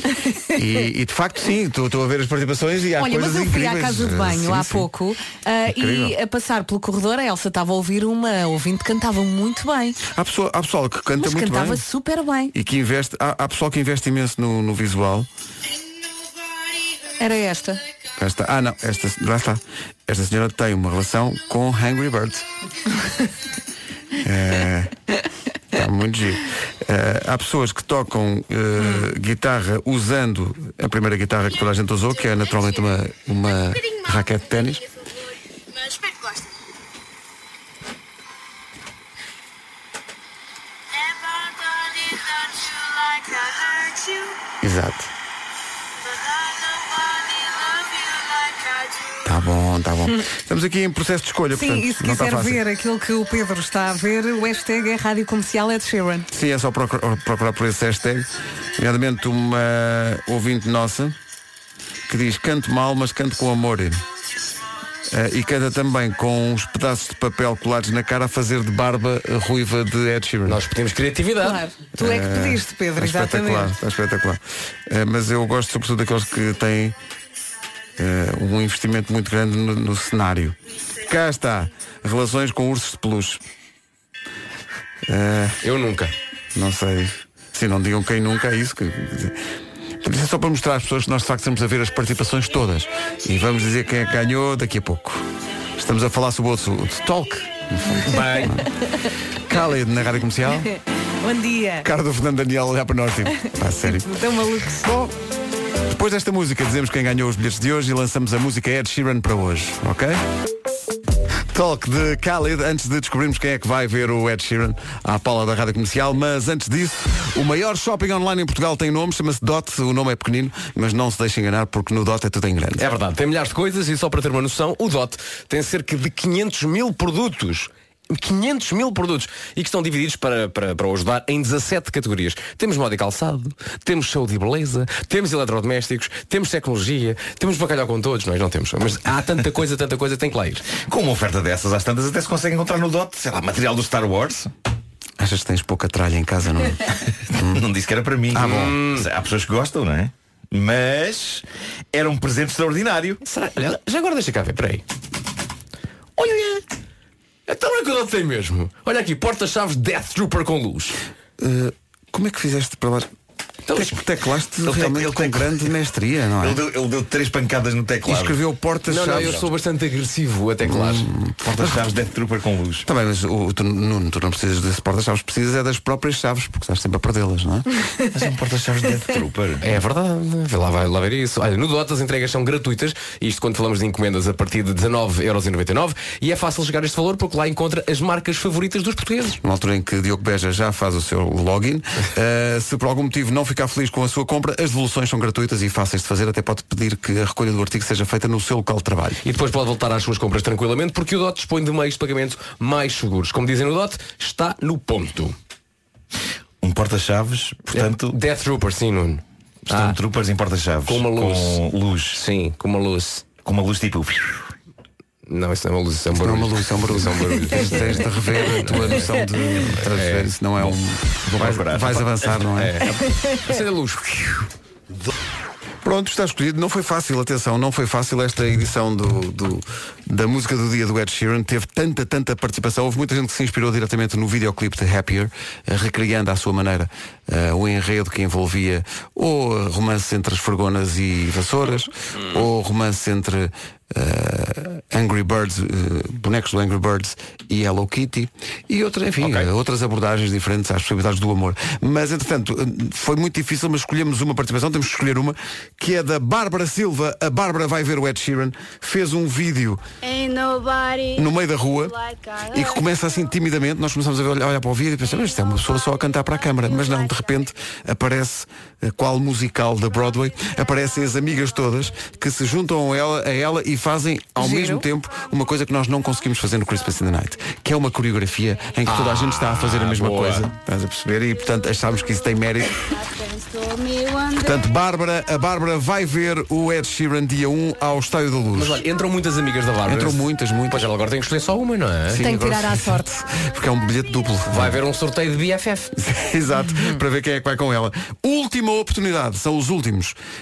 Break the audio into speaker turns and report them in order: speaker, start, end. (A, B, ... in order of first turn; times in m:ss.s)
0:00.5-0:04.9 A
0:03.0-0:10.0 B
0:05.7-0:06.2 A
0:10.1-0:11.8 A
0:11.2-0:12.5 B
0:12.5-0:15.3 A
0:17.2-0:17.8 B
0:18.2-0:22.4 A
0:24.2-0:24.9 A
0:25.7-0:34.8 A
0:41.4-0:44.1 C
0:44.6-0:45.1 A
0:46.6-0:49.1 C
0:49.2-0:52.6 A
0:51.5-0:56.3 B
0:56.3-1:01.2 A
1:02.1-1:04.0 A
1:05.1-1:10.6 A
1:10.4-1:11.6 D
1:11.4-1:13.7 B
1:12.0-1:16.9 A
1:18.0-1:23.4 A
1:25.1-1:25.6 A
1:25.6-1:26.1 D
1:26.5-1:29.4 A
1:30.0-1:35.2 A
1:35.8-1:38.6 A
1:38.0-1:38.6 D
1:39.5-1:40.7 A
1:41.2-1:41.9 B
1:41.8-1:44.2 A
1:43.8-1:44.9 B
1:44.8-1:45.1 A
1:45.9-1:50.2 A
1:51.5-2:02.8 A
2:02.8-2:20.6 D
2:20.8-2:24.5 E
2:25.2-2:27.6 A
2:27.5-2:33.2 E
2:28.3-2:28.8 A
2:28.4-2:29.0 D
2:33.2-2:34.8 D
2:36.2-2:36.6 D
2:37.5-2:41.0 D
2:41.4-2:43.1 A
2:43.7-2:46.6 A
2:44.6-2:45.6 E
2:46.4-2:48.4 E
2:48.0-2:49.4 A
2:48.9-2:51.1 D
2:49.0-2:49.5 E
2:50.6-2:51.8 A
2:51.5-2:52.8 E
2:52.8-2:57.6 A
2:58.0-2:59.6 E
2:59.6-3:09.4 D
3:09.4-3:19.2 A
3:19.2-3:25.3 D
3:26.6-3:28.2 E
3:27.7-3:30.0 D
3:29.7-3:32.2 E
3:30.9-3:31.6 D
3:32.1-3:33.2 D
3:33.4-3:34.5 E
3:35.3-3:38.0 D
3:36.2-3:42.8 A
3:38.6-3:39.1 D
3:39.8-3:40.3 D
3:41.2-3:42.0 E
3:42.5-3:44.5 D
3:43.1-3:43.4 B
3:45.8-4:19.8 A
4:09.2-4:09.5 D
4:20.0-4:23.4 C
4:21.2-4:21.9 A
4:22.5-4:42.9 A
4:25.1-4:27.8 C
4:29.9-4:32.9 C
4:34.4-4:34.8 B
4:35.0-4:38.9 C
4:38.8-4:40.5 D
4:41.3-4:45.0 C
4:44.4-4:48.8 A
4:47.8-4:48.0 C
4:48.5-4:52.2 D
4:49.8-4:50.9 A
4:52.1-4:54.8 A
4:52.2-4:53.1 B
4:53.1-4:54.3 C
4:54.5-4:55.9 D
4:56.0-5:00.1 A
4:56.6-4:57.0 B